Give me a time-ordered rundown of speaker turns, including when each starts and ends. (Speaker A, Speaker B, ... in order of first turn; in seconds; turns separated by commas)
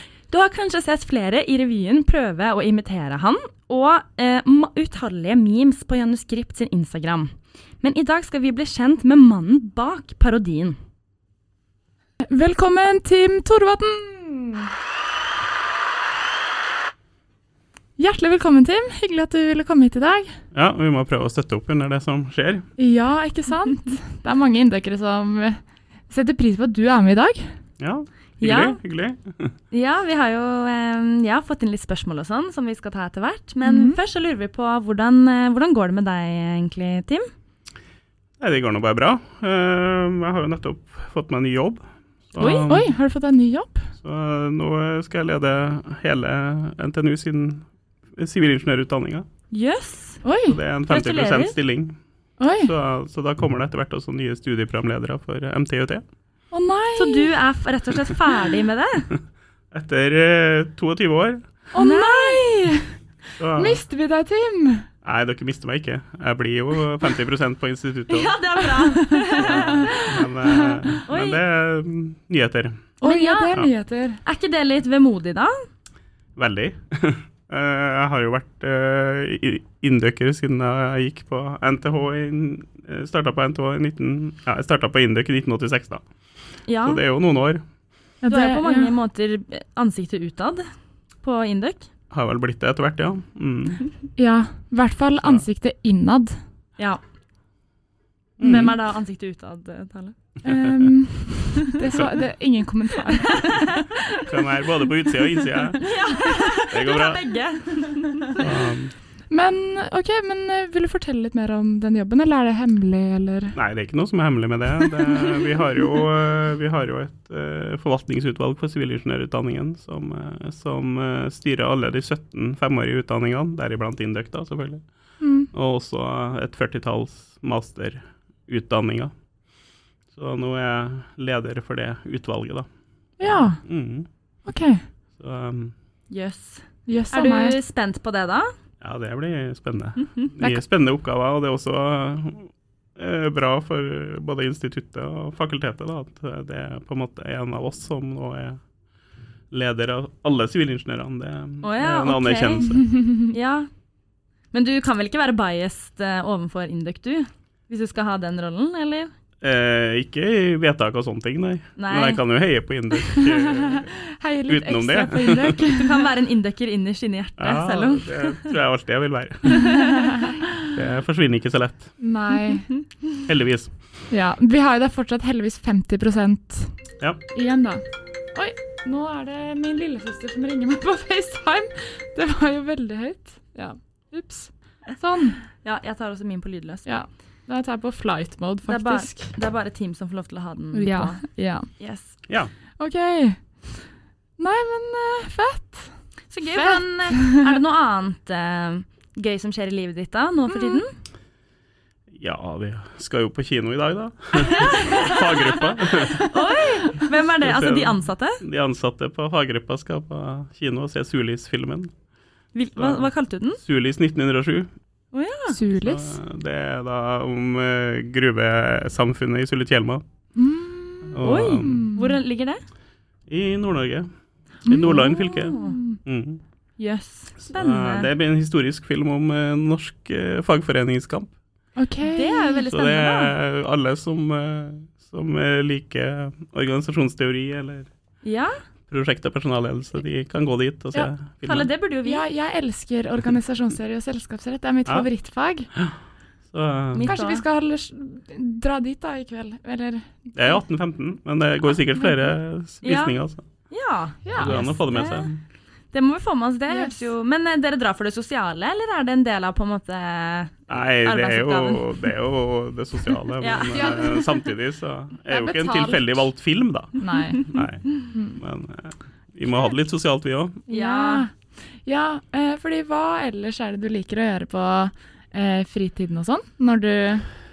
Speaker A: 0.3-10.8, Speaker B: 12.2-14.7, Speaker B: 18.0-20.4, Speaker C: 20.5-22.7, Speaker B: 22.8-27.6, Speaker C: 27.8-29.6, Speaker A: 28.4-28.8, Speaker A: 29.7-37.3, Speaker B: 33.6-34.0, Speaker C: 38.4-42.9, Speaker A: 42.4-42.8, Speaker B: 42.4-43.9, Speaker C: 44.0-49.3, Speaker A: 49.5-50.2, Speaker B: 50.2-50.6, Speaker C: 50.5-52.0, Speaker A: 50.9-51.5, Speaker B: 52.4-52.7, Speaker C: 52.6-56.0, Speaker B: 56.5-57.3, Speaker A: 57.0-59.1, Speaker C: 59.7-61.5, Speaker B: 61.7-63.0, Speaker A: 61.8-62.5, Speaker C: 63.4-63.8, Speaker B: 63.5-64.9, Speaker C: 65.0-68.4, Speaker A: 68.1-70.1, Speaker B: 68.6-71.0, Speaker C: 69.3-72.9, Speaker A: 71.1-71.4, Speaker A: 73.0-73.6, Speaker B: 73.0-74.2, Speaker A: 74.2-75.5, Speaker C: 76.4-86.0, Speaker A: 86.7-87.0, Speaker C: 86.8-87.6, Speaker B: 88.2-88.9, Speaker A: 88.3-91.9, Speaker C: 92.1-93.9, Speaker B: 94.2-96.4, Speaker C: 98.4-98.8, Speaker A: 98.4-100.2, Speaker B: 100.4-103.7, Speaker C: 100.5-100.9, Speaker C: 101.9-102.2, Speaker A: 103.2-104.6, Speaker C: 104.2-105.9, Speaker A: 105.3-108.4, Speaker C: 106.7-107.2, Speaker C: 108.4-109.0, Speaker B: 109.3-113.6, Speaker C: 113.5-124.8, Speaker B: 125.2-125.5, Speaker C: 125.5-129.1, Speaker C: 130.1-132.7, Speaker B: 133.2-133.6, Speaker C: 133.2-134.1, Speaker B: 134.5-134.9, Speaker C: 135.2-135.8, Speaker A: 136.1-138.5, Speaker B: 136.9-137.6, Speaker C: 138.8-148.6, Speaker C: 149.5-152.8, Speaker A: 151.6-153.7, Speaker B: 152.9-153.3, Speaker A: 154.5-159.1, Speaker C: 159.4-164.0, Speaker A: 161.8-162.2, Speaker A: 163.0-163.3, Speaker B: 163.5-166.1, Speaker C: 164.5-165.6, Speaker A: 165.6-168.6, Speaker C: 167.4-169.8, Speaker A: 169.5-170.3, Speaker B: 169.8-170.4, Speaker C: 170.6-172.0, Speaker B: 172.0-172.7, Speaker A: 172.5-172.8, Speaker C: 173.2-173.7, Speaker B: 174.1-176.8, Speaker B: 177.3-177.8, Speaker B: 178.3-185.4, Speaker A: 185.6-186.9, Speaker B: 186.8-189.3, Speaker A: 188.7-192.2, Speaker B: 190.7-191.7, Speaker B: 192.8-197.5, Speaker A: 196.3-201.0, Speaker B: 200.5-200.8, Speaker C: 202.1-206.2, Speaker A: 204.4-208.4, Speaker B: 206.1-206.8, Speaker C: 207.4-211.9, Speaker A: 212.5-213.6, Speaker C: 212.8-214.7, Speaker A: 215.1-215.6, Speaker B: 215.5-216.2, Speaker C: 215.8-220.0, Speaker B: 220.4-222.2, Speaker C: 221.1-221.9, Speaker A: 221.2-222.6, Speaker C: 223.3-224.1, Speaker C: 224.7-226.4, Speaker B: 224.7-226.0, Speaker A: 224.8-225.8, Speaker A: 226.8-228.1, Speaker C: 227.4-231.3, Speaker B: 231.8-232.6, Speaker A: 232.1-233.4, Speaker C: 232.6-237.9, Speaker A: 238.2-238.6, Speaker C: 238.9-241.7, Speaker A: 241.4-242.2, Speaker B: 242.0-245.7, Speaker C: 246.5-247.2, Speaker A: 246.9-247.4, Speaker B: 247.1-250.6, Speaker C: 250.3-253.4, Speaker A: 252.8-253.2, Speaker A: 253.7-255.3, Speaker B: 254.2-254.6, Speaker C: 254.4-255.4, Speaker A: 255.9-262.0, Speaker B: 256.7-257.0, Speaker C: 260.7-270.6, Speaker A: 263.3-264.4, Speaker B: 263.7-264.3, Speaker B: 265.3-266.3, Speaker B: 267.0-267.4, Speaker B: 268.1-268.4, Speaker B: 270.7-277.3, Speaker A: 270.7-271.3